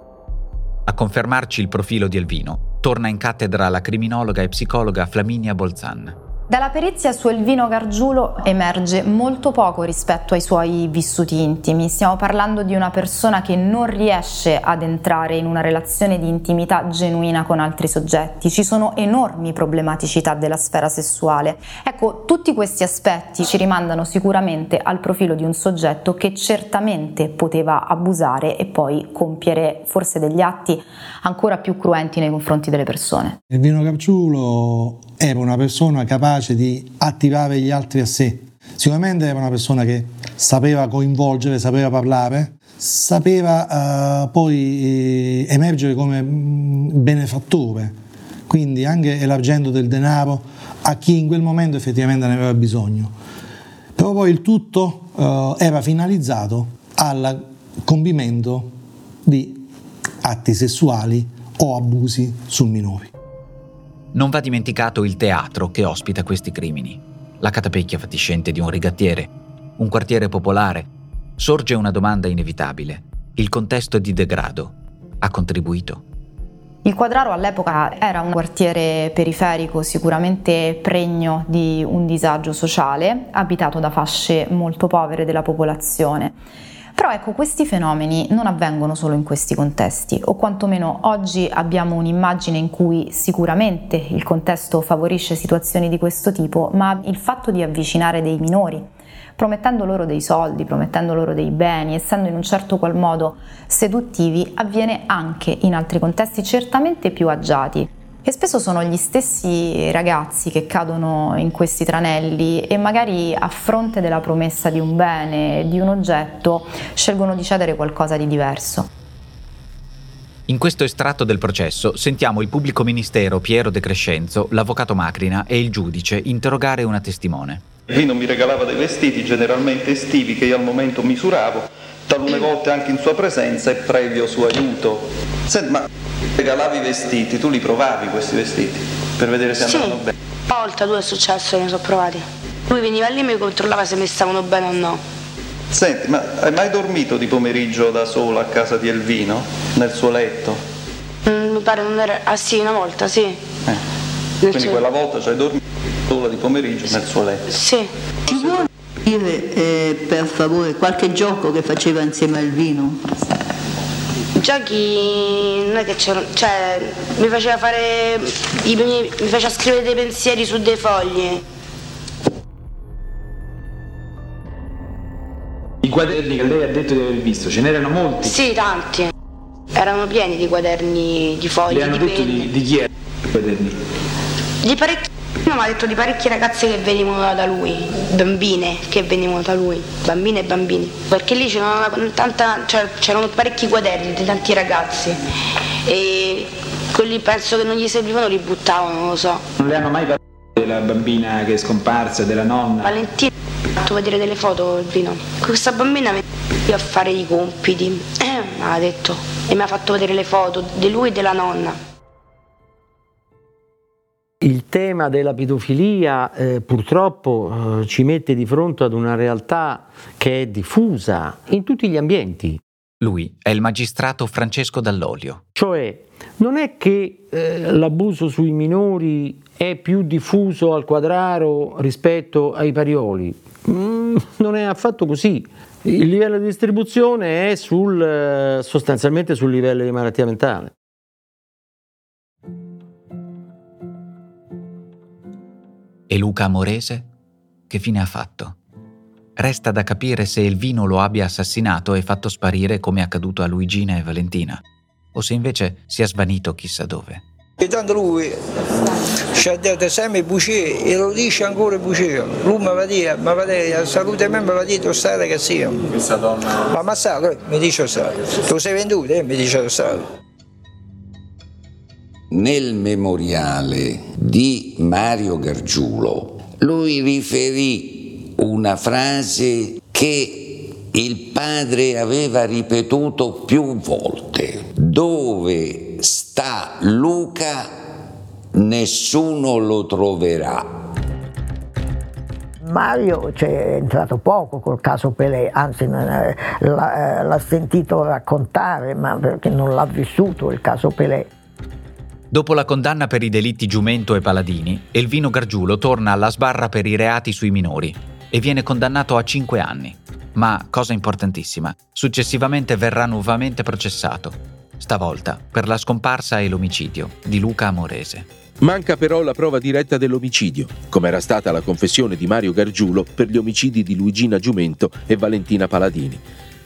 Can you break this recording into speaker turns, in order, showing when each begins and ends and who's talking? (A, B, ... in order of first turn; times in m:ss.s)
0:00.9-0:06.2 A
0:06.5-0:33.4 B
0:33.5-0:48.0 C
0:48.5-0:53.1 C
0:54.0-0:58.7 C
0:59.2-0:59.6 C
1:00.2-1:03.1 C
1:04.1-1:16.0 A
1:16.8-1:26.4 B
1:27.0-1:58.9 B
2:00.5-2:07.6 A
2:07.9-2:15.8 D
2:16.4-2:20.1 D
2:19.6-2:25.0 E
2:25.7-2:30.6 D
2:31.3-2:33.4 E
2:34.4-2:34.8 E
2:34.5-2:37.4 D
2:37.5-2:38.6 E
2:39.0-2:43.0 F
2:44.4-2:51.4 E
2:55.8-2:58.3 G
2:58.2-2:59.1 E
2:59.7-3:02.5 E
3:01.8-3:02.8 G
3:04.6-3:15.2 E
3:15.9-3:19.4 E
3:19.6-3:22.9 G
3:22.8-3:31.8 E
3:34.4-3:42.6 H
3:43.0-3:45.4 A
3:45.6-4:00.7 H
4:06.1-4:07.1 A
4:07.7-4:08.6 A
4:09.4-4:14.6 A
4:15.2-4:17.2 A
4:17.6-4:18.3 I
4:19.4-4:25.6 I
4:26.8-4:27.9 I
4:28.6-4:29.8 I
4:32.3-4:47.7 J
4:48.5-4:50.7 J
4:52.6-5:01.3 K
5:02.3-5:18.3 A
5:18.6-5:26.2 L